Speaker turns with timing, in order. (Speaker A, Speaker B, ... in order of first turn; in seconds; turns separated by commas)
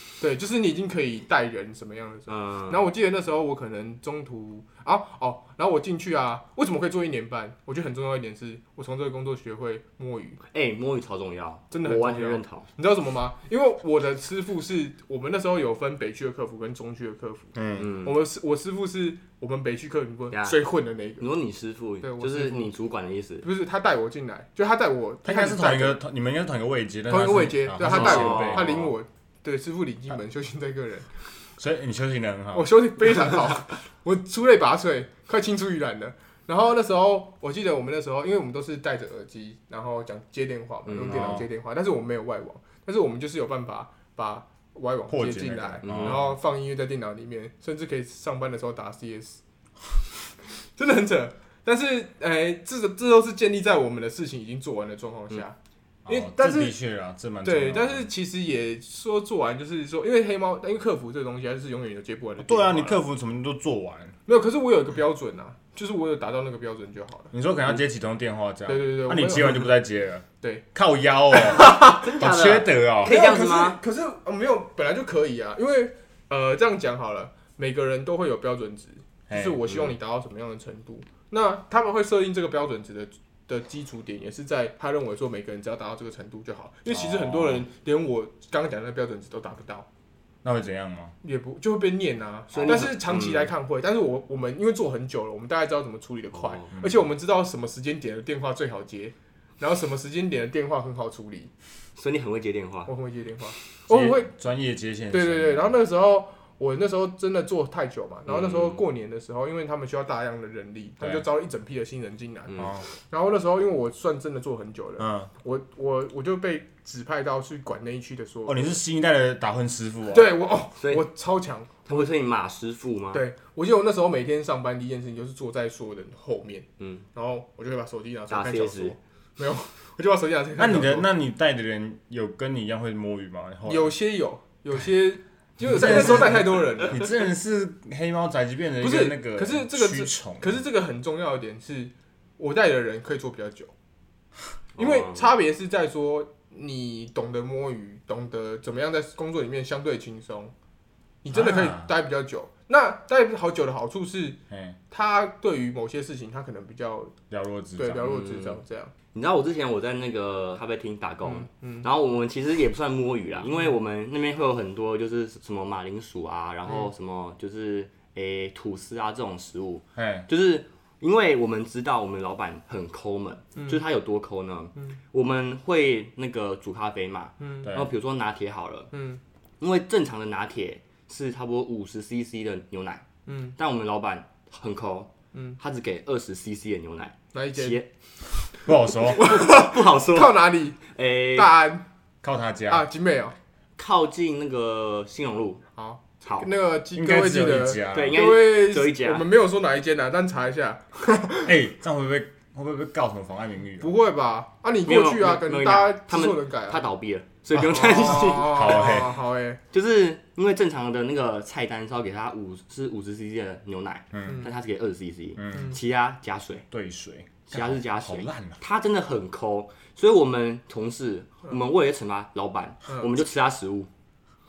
Speaker A: 0.1-10.4, Speaker B: 2.3-2.8, Speaker B: 10.5-12.7, Speaker A: 11.7-21.3, Speaker C: 17.5-18.0, Speaker B: 17.8-18.1, Speaker B: 20.3-20.6, Speaker B: 21.2-23.4, Speaker A: 22.0-22.7, Speaker A: 23.4-26.0, Speaker C: 25.2-28.9, Speaker A: 27.1-31.1, Speaker B: 27.8-28.9, Speaker C: 31.6-32.7, Speaker A: 32.5-49.4, Speaker B: 40.9-41.4, Speaker C: 41.0-41.5, Speaker C: 45.1-46.4, Speaker B: 45.8-46.2, Speaker A: 50.8-55.5, Speaker C: 56.0-58.1, Speaker A: 56.1-56.8, Speaker A: 57.4-63.0, Speaker C: 62.4-64.2, Speaker A: 64.2-67.3, Speaker C: 67.3-73.2, Speaker A: 68.7-69.7, Speaker B: 71.5-73.8, Speaker A: 71.5-72.0, Speaker A: 73.0-89.9, Speaker C: 79.3-79.6, Speaker C: 86.9-87.6, Speaker C: 90.4-91.1, Speaker A: 91.2-101.5, Speaker B: 92.5-93.5, Speaker B: 96.3-96.7, Speaker B: 102.0-102.9, Speaker A: 102.9-104.3, Speaker C: 103.9-105.7, Speaker A: 105.1-118.8, Speaker B: 108.3-108.8, Speaker C: 112.6-112.9, Speaker C: 115.0-115.3, Speaker C: 118.5-120.3, Speaker A: 120.1-122.1, Speaker B: 120.8-121.0, Speaker B: 121.9-123.2, Speaker A: 123.1-131.1, Speaker B: 126.8-127.0, Speaker B: 128.3-128.9, Speaker C: 130.6-133.9, Speaker A: 133.7-137.1, Speaker C: 135.6-140.6, Speaker A: 138.8-143.7, Speaker B: 144.8-145.3, Speaker A: 144.8-150.5, Speaker A: 151.2-154.4, Speaker C: 151.3-151.9, Speaker C: 154.5-154.8, Speaker A: 154.9-157.1, Speaker C: 157.3-158.0, Speaker A: 157.8-158.9, Speaker B: 158.0-158.6, Speaker B: 159.1-178.9, Speaker A: 161.2-161.9, Speaker C: 169.9-170.3, Speaker A: 177.4-177.7, Speaker C: 177.6-177.9, Speaker A: 178.9-179.2, Speaker B: 179.6-183.0, Speaker A: 183.3-183.5, Speaker B: 183.6-187.9, Speaker A: 187.3-187.8, Speaker C: 188.6-189.3, Speaker A: 189.1-191.9, Speaker B: 189.1-191.5, Speaker C: 192.2-192.8, Speaker A: 192.7-193.3, Speaker B: 193.8-195.6, Speaker A: 195.8-201.5, Speaker C: 196.9-198.3, Speaker B: 197.9-199.2, Speaker C: 201.4-203.9, Speaker A: 203.8-206.9, Speaker B: 204.8-209.0, Speaker C: 207.6-209.2, Speaker A: 207.6-209.6, Speaker B: 209.7-216.7, Speaker C: 214.1-214.4, Speaker C: 215.4-215.8, Speaker A: 215.5-215.8, Speaker C: 216.7-218.6, Speaker B: 217.5-223.9